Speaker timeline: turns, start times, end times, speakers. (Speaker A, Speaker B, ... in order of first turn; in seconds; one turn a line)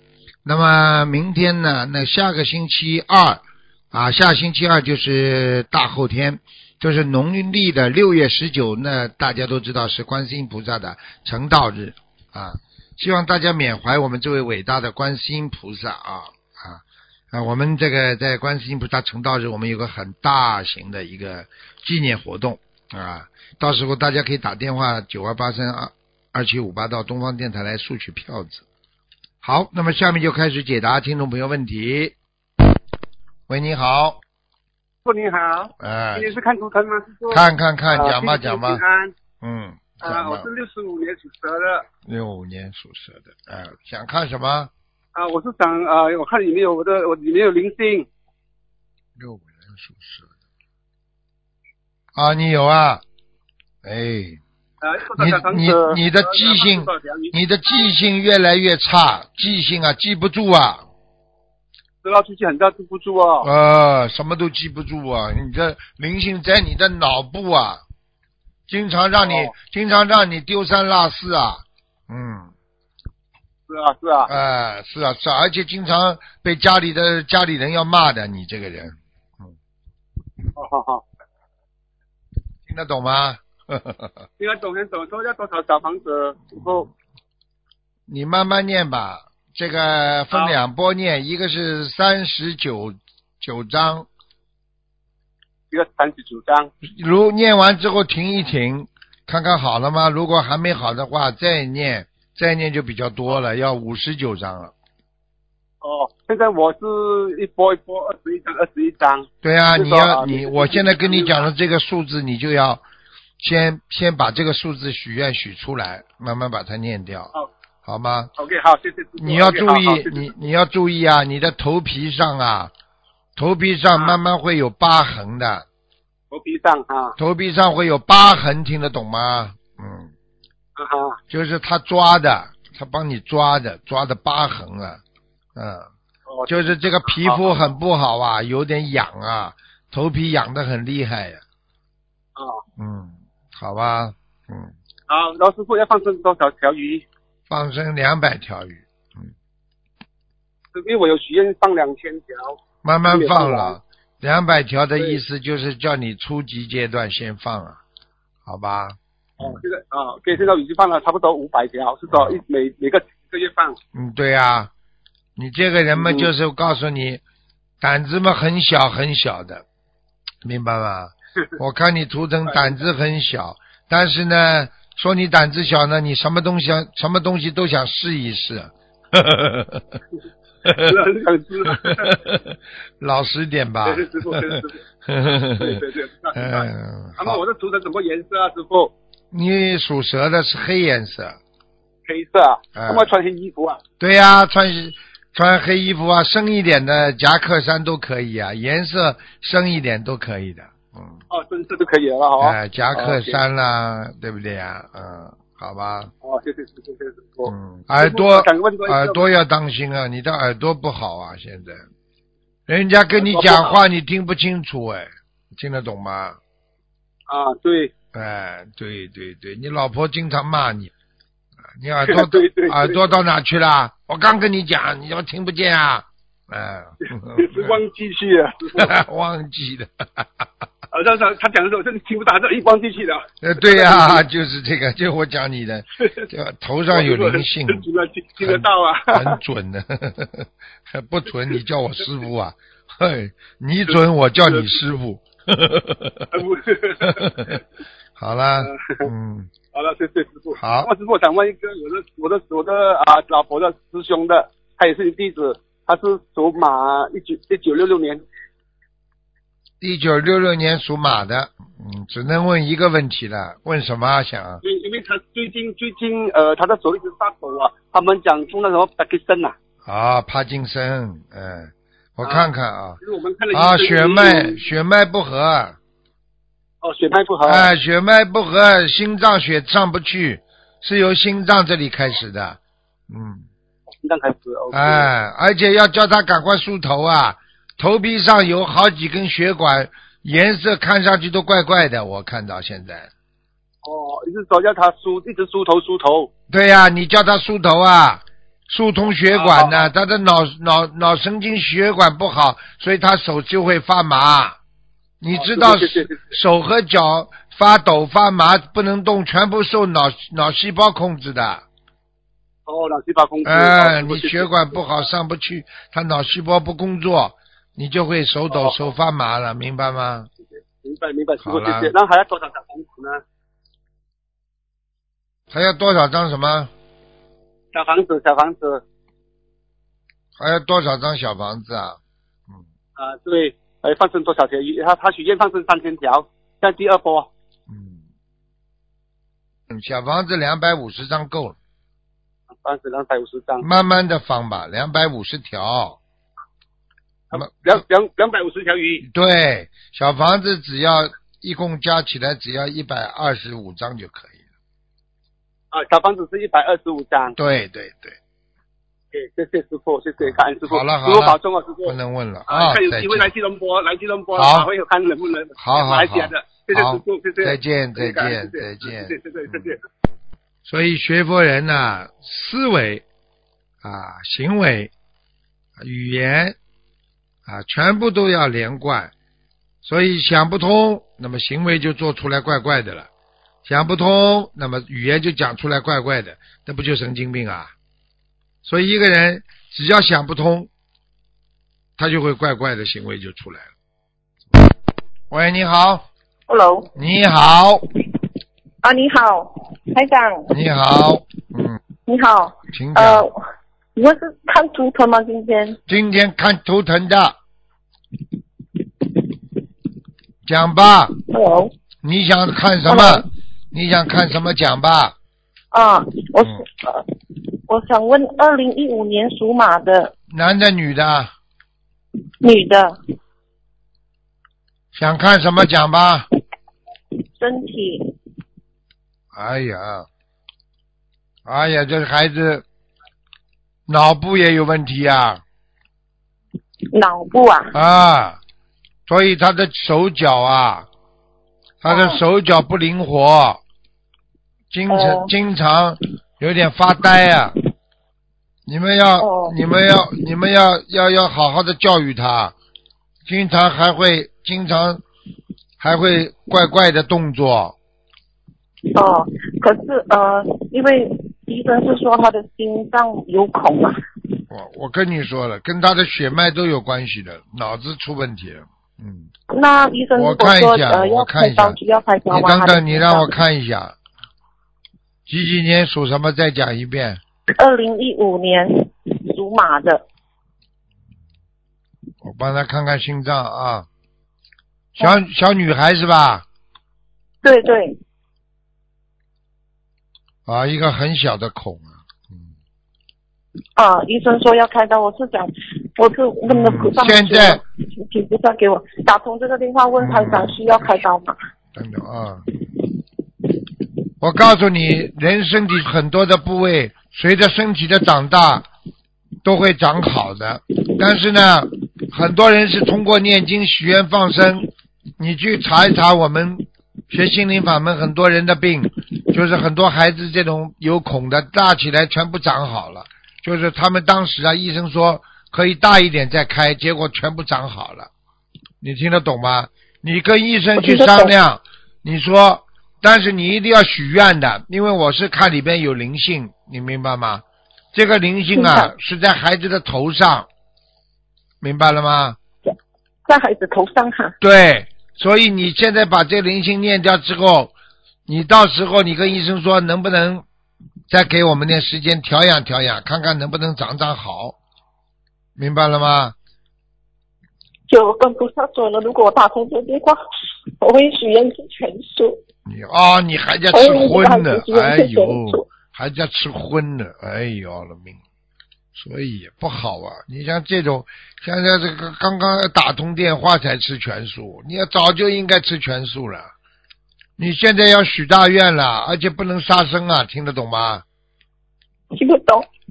Speaker A: 0.4-28.6
Speaker A: 29.4-32.1
Speaker A: 33.5-34.2
Speaker B: 35.0-39.1
Speaker A: 35.8-36.3
Speaker A: 37.3-38.8
Speaker A: 39.4-40.5
Speaker B: 40.0-41.9
Speaker A: 42.0-44.7
Speaker B: 45.1-48.1
Speaker A: 49.2-50.3
Speaker A: 52.1-53.0
Speaker A: 53.8-54.4
Speaker B: 54.8-57.3
Speaker A: 55.2-60.9
Speaker B: 62.0-63.5
Speaker A: 63.4-67.8
Speaker A: 68.7-72.5
Speaker B: 69.2-69.5
Speaker B: 73.7-74.3
Speaker A: 74.2-79.5
Speaker B: 80.5-81.0
Speaker A: 82.7-84.2
Speaker B: 84.4-86.9
Speaker A: 86.5-86.8
Speaker A: 88.1-94.1
Speaker B: 95.7-96.7
Speaker A: 96.8-104.7
Speaker B: 105.8-111.5
Speaker A: 109.4-112.8
Speaker A: 113.4-117.3
Speaker A: 117.8-118.3
Speaker B: 118.4-120.3
Speaker A: 119.2-122.7
Speaker A: 123.3-125.7
Speaker B: 126.3-127.2
Speaker A: 127.2-130.1
Speaker B: 130.8-131.2
Speaker A: 131.3-135.0
Speaker A: 135.5-135.9
Speaker B: 136.3-137.4
Speaker A: 136.5-141.4
Speaker B: 142.3-142.6
Speaker A: 142.8-144.7
Speaker B: 145.1-147.0
Speaker A: 147.5-149.3
Speaker B: 150.7-153.8
Speaker A: 152.8-157.8
Speaker A: 158.4-159.6
Speaker B: 159.4-163.8
Speaker A: 162.1-162.4
Speaker A: 163.9-164.7
Speaker A: 165.4-167.2
Speaker B: 166.0-166.3
Speaker A: 167.8-169.6
Speaker A: 170.4-180.0
Speaker A: 180.6-180.9
Speaker B: 180.8-182.2
Speaker A: 181.7-185.8
Speaker B: 183.8-184.8
Speaker B: 185.5-188.9
Speaker A: 186.3-187.4
Speaker A: 189.3-191.4
Speaker B: 192.1-193.8
Speaker A: 192.8-193.1
Speaker A: 194.0-201.2
Speaker B: 201.3-203.4
Speaker A: 202.4-206.1
Speaker B: 206.2-209.2
Speaker A: 207.4-211.8
Speaker A: 212.7-216.4
Speaker B: 213.2-213.8
Speaker B: 217.3-217.9
Speaker A: 218.1-220.9
Speaker A: 221.8-227.8
Speaker B: 222.1-223.0
Speaker B: 227.3-228.9
Speaker A: 228.8-230.5
Speaker B: 230.9-234.2
Speaker A: 233.4-237.9
Speaker B: 236.0-236.2
Speaker B: 236.9-239.4
Speaker A: 238.4-246.4
Speaker B: 244.5-244.8
Speaker B: 246.3-247.6
Speaker A: 247.0-247.6
Speaker A: 248.2-249.5
Speaker B: 248.6-249.1
Speaker B: 249.7-258.2
Speaker A: 250.6-250.9
Speaker A: 259.8-264.6
Speaker B: 264.6-269.5
Speaker A: 269.9-273.0
Speaker B: 273.0-274.6
Speaker A: 273.5-275.8
Speaker B: 276.8-277.7
Speaker A: 277.4-283.5
Speaker B: 284.0-285.1
Speaker A: 284.7-293.1
Speaker B: 293.8-296.3
Speaker A: 296.5-304.6
Speaker B: 299.3-299.9
Speaker A: 305.2-311.6
Speaker B: 305.3-306.3
Speaker B: 312.7-314.5
Speaker A: 313.4-320.3
Speaker B: 320.6-323.2
Speaker A: 321.4-321.9
Speaker A: 325.5-326.7
Speaker B: 327.7-328.8
Speaker A: 330.4-332.0
Speaker B: 333.0-337.3
Speaker A: 337.7-338.0
Speaker A: 339.7-341.6
Speaker B: 342.6-343.7
Speaker A: 343.6-346.0
Speaker B: 347.3-349.0
Speaker A: 347.3-347.8
Speaker A: 349.0-354.4
Speaker B: 355.7-357.4
Speaker A: 357.4-358.2
Speaker B: 359.1-361.9
Speaker A: 360.2-363.3
Speaker B: 362.5-369.8
Speaker A: 364.3-364.7
Speaker A: 365.6-369.7
Speaker A: 370.6-373.0
Speaker A: 373.8-374.9
Speaker A: 375.8-376.6
Speaker A: 377.4-379.1
Speaker A: 379.8-383.1
Speaker A: 383.6-387.7
Speaker A: 388.6-390.7
Speaker A: 392.0-393.7
Speaker A: 395.3-396.0
Speaker C: 396.5-396.9
Speaker A: 396.9-397.8
Speaker C: 398.8-400.5
Speaker A: 400.5-401.8
Speaker C: 402.1-403.4
Speaker A: 402.7-403.3
Speaker C: 403.9-405.8
Speaker A: 405.9-407.4
Speaker A: 410.4-411.1
Speaker C: 411.3-411.7
Speaker A: 412.0-415.1
Speaker C: 412.8-413.2
Speaker C: 415.7-420.1
Speaker A: 420.3-421.3
Speaker C: 422.4-422.9
Speaker A: 424.9-426.2
Speaker C: 427.4-428.1
Speaker A: 429.3-430.1
Speaker A: 431.4-432.6
Speaker A: 433.9-435.4
Speaker C: 436.9-437.7
Speaker A: 437.7-438.4
Speaker A: 439.1-440.9
Speaker A: 441.8-443.6
Speaker C: 441.9-442.2
Speaker A: 444.7-447.5
Speaker C: 444.9-445.3
Speaker A: 448.6-452.5
Speaker C: 449.2-449.6
Speaker A: 453.2-455.0
Speaker A: 455.8-457.8
Speaker C: 458.9-464.0
Speaker A: 464.5-469.3
Speaker C: 469.5-473.4
Speaker A: 470.1-471.8
Speaker A: 472.3-473.9
Speaker A: 475.3-477.2
Speaker C: 477.6-480.0
Speaker A: 482.2-483.9
Speaker A: 484.9-486.4
Speaker C: 487.4-488.0
Speaker A: 490.4-492.5
Speaker C: 493.8-501.3
Speaker A: 496.5-497.6
Speaker A: 500.0-500.6
Speaker A: 501.7-502.4
Speaker A: 504.2-508.7
Speaker A: 509.4-528.1
Speaker A: 528.8-540.5
Speaker C: 530.8-531.3
Speaker C: 538.5-538.9
Speaker A: 541.6-542.4
Speaker C: 543.3-544.4
Speaker A: 544.4-547.7
Speaker A: 548.3-550.4
Speaker A: 551.1-554.5
Speaker A: 555.5-556.3
Speaker C: 557.9-562.4
Speaker A: 562.6-568.2
Speaker C: 563.7-565.7
Speaker A: 568.9-576.5
Speaker A: 577.4-581.0
Speaker C: 582.1-582.7